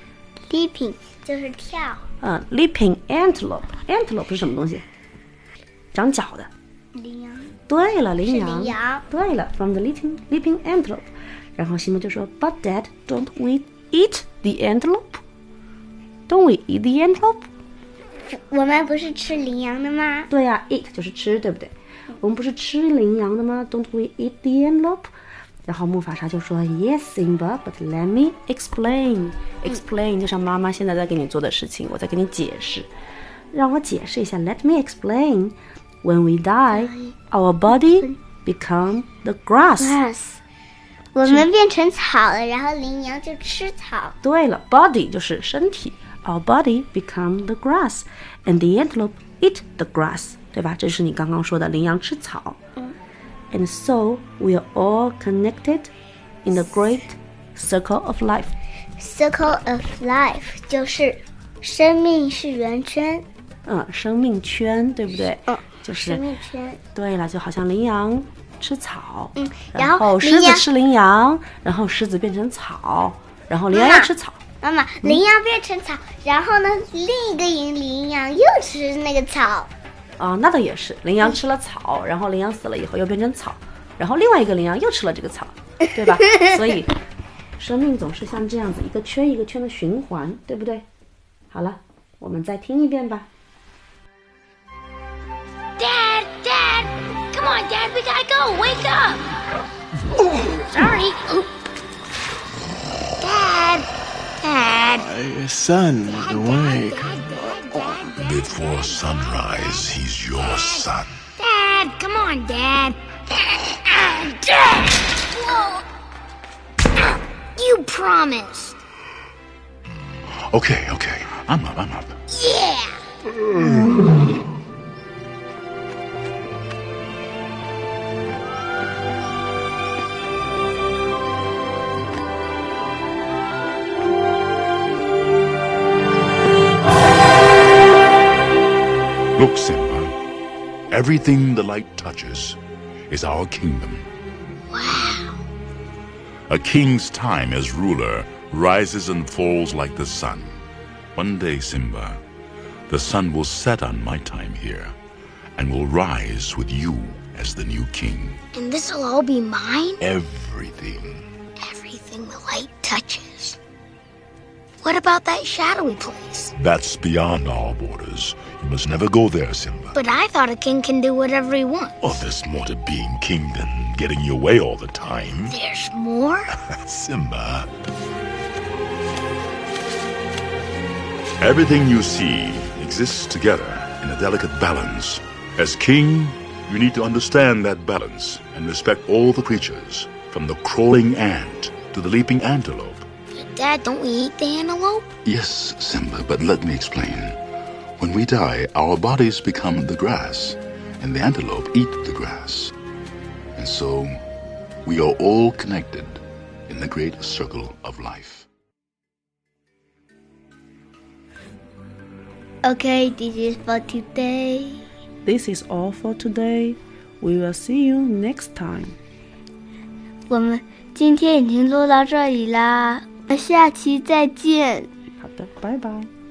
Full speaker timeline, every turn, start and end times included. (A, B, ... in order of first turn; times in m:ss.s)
0:00.5-0:02.0 A
0:02.2-0:04.8 B
0:05.9-0:06.5 B
0:07.0-0:07.6 A
0:07.7-0:15.2 B
0:08.2-0:09.0 A
0:16.3-0:17.5 B
0:18.3-0:20.3 A
0:20.3-0:25.1 B
0:25.7-0:32.9 B
0:33.5-0:40.0 B
0:36.7-0:37.1 A
0:39.8-0:40.4 A
0:41.2-0:44.2 A
0:44.2-0:52.6 B
0:53.5-0:55.9 B
0:56.4-0:58.6 B
0:59.0-1:03.2 A
1:03.7-1:06.2 B
1:05.5-1:06.8 A
1:06.9-1:14.4 B
1:09.4-1:10.7 A
1:13.7-1:14.1 A
1:14.6-1:19.7 A
1:20.2-1:26.9 B
1:27.6-1:30.8 B
1:31.5-1:33.3 B
1:35.8-1:39.3 C
1:40.7-1:41.4 C
1:43.2-1:43.9 C
1:44.4-1:45.2 C
1:45.0-1:47.1 D
1:46.0-1:49.0 C
1:48.2-1:51.1 E
1:50.4-1:50.8 C
1:51.4-1:55.8 C
1:57.6-1:58.8 C
2:00.5-2:02.2 E
2:02.3-2:03.0 C
2:19.4-2:20.2 E
2:20.9-2:22.6 E
2:23.1-2:24.1 E
2:24.7-2:25.4 C
2:26.5-2:30.6 E
2:31.2-2:32.2 E
2:32.9-2:35.0 E
2:35.6-2:38.4 E
2:38.5-2:40.0 C
2:40.0-2:41.2 E
2:41.6-2:43.6 C
2:44.8-2:46.5 C
2:46.6-2:50.0 E
2:49.9-2:52.0 C
2:52.0-2:55.6 E
2:55.4-2:56.5 C
2:56.8-2:57.7 E
3:01.4-3:13.1 E
3:13.4-3:15.0 C
3:15.2-3:17.4 E
3:18.0-3:22.7 E
3:23.6-3:24.2 E
3:24.8-3:28.5 E
3:32.6-3:34.8 A
3:35.2-3:39.0 B
3:40.3-3:44.9 A
3:45.2-3:46.1 B